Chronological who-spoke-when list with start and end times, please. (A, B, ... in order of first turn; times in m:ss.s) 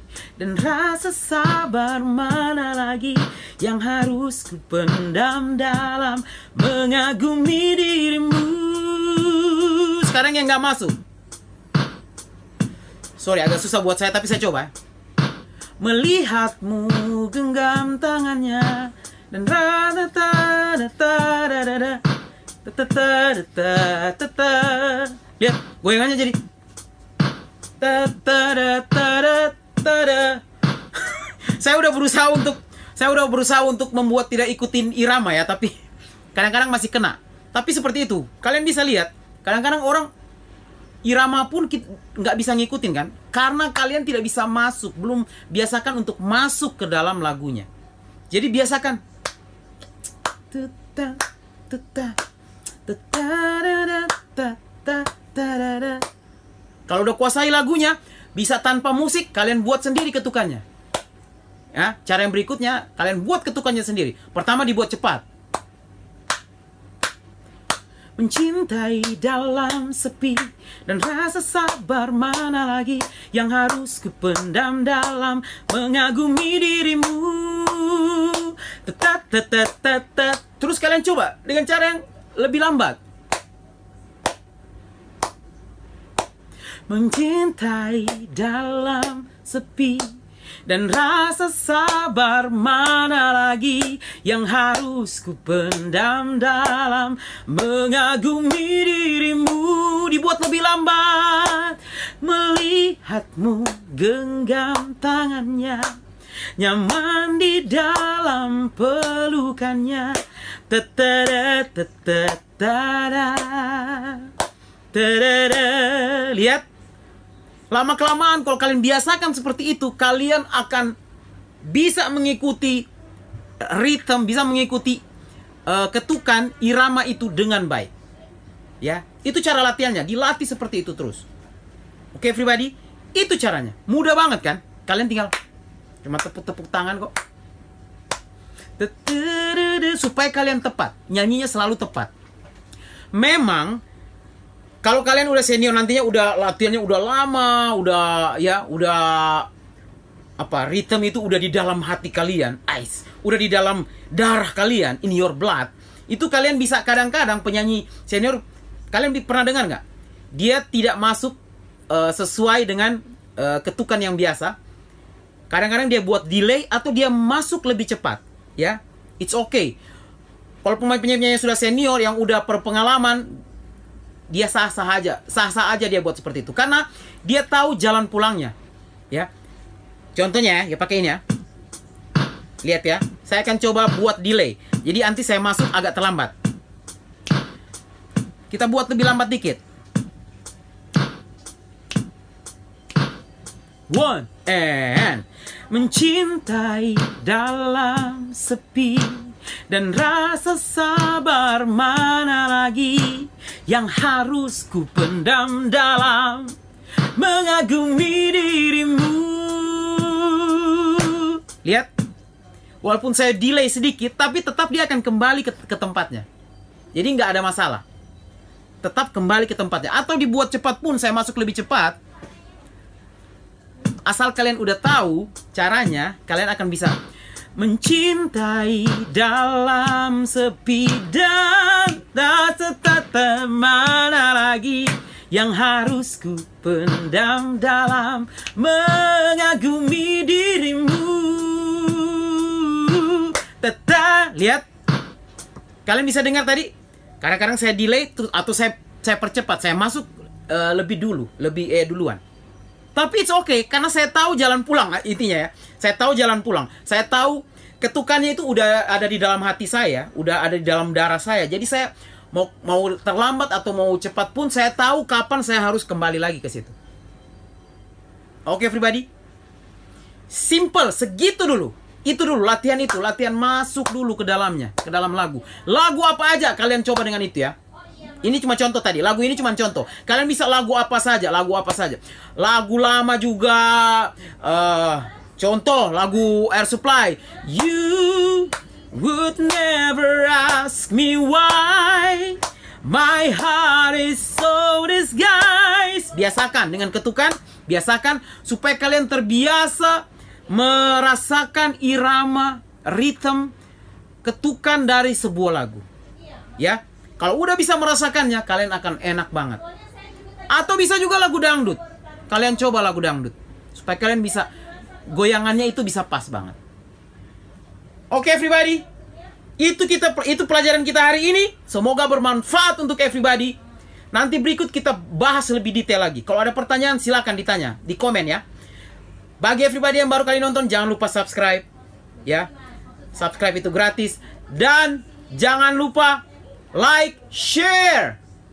0:00.4-0:11.0 A
0:13.2-0:14.7 A
0:15.8-0:22.0 A
0:22.6-0:26.4 A
0:27.8-0:30.4 A
0:30.9-0:35.7 A
0:36.4-0:40.1 A
0:41.0-0:47.7 A
0:48.3-0:49.0 A
0:50.5-0:52.2 A
0:52.9-0:56.1 A
0:56.9-1:00.6 A
1:01.7-1:05.2 A
1:08.2-1:23.0 A
1:26.9-1:46.0 A
1:46.6-1:54.3 A
1:54.9-1:56.6 A
1:57.7-2:01.0 A
2:01.6-2:02.9 A
2:03.6-2:05.0 A
2:05.7-2:07.9 A
2:08.8-2:11.3 A
2:12.1-2:15.3 A
2:16.0-2:17.1 A
2:18.8-2:22.1 A
2:23.1-2:23.8 A
2:24.8-2:29.5 A
2:30.4-2:39.8 A
2:40.3-2:41.4 A
2:41.9-2:44.6 A
2:45.5-2:49.8 A
2:50.6-2:53.4 A
2:54.3-2:58.6 A
3:00.2-3:01.2 A
3:02.6-3:06.3 A
3:08.5-3:09.6 A
3:13.9-3:26.6 A
3:27.2-3:31.9 A
3:32.8-3:36.3 A
3:36.9-3:37.8 A
3:38.8-3:42.0 A
3:44.0-3:47.0 A
3:47.6-4:04.7 A
4:05.9-4:12.2 A
4:13.0-4:26.7 A
4:28.5-4:29.1 A
4:30.3-5:03.5 A
5:04.2-5:05.8 A
5:06.6-5:09.6 A
5:10.5-5:14.5 A
5:15.0-5:16.6 A
5:18.1-5:18.9 A
5:19.6-5:23.6 A
5:24.1-5:28.4 A
5:29.4-5:31.7 A
5:32.2-5:32.5 A
5:33.1-5:38.2 A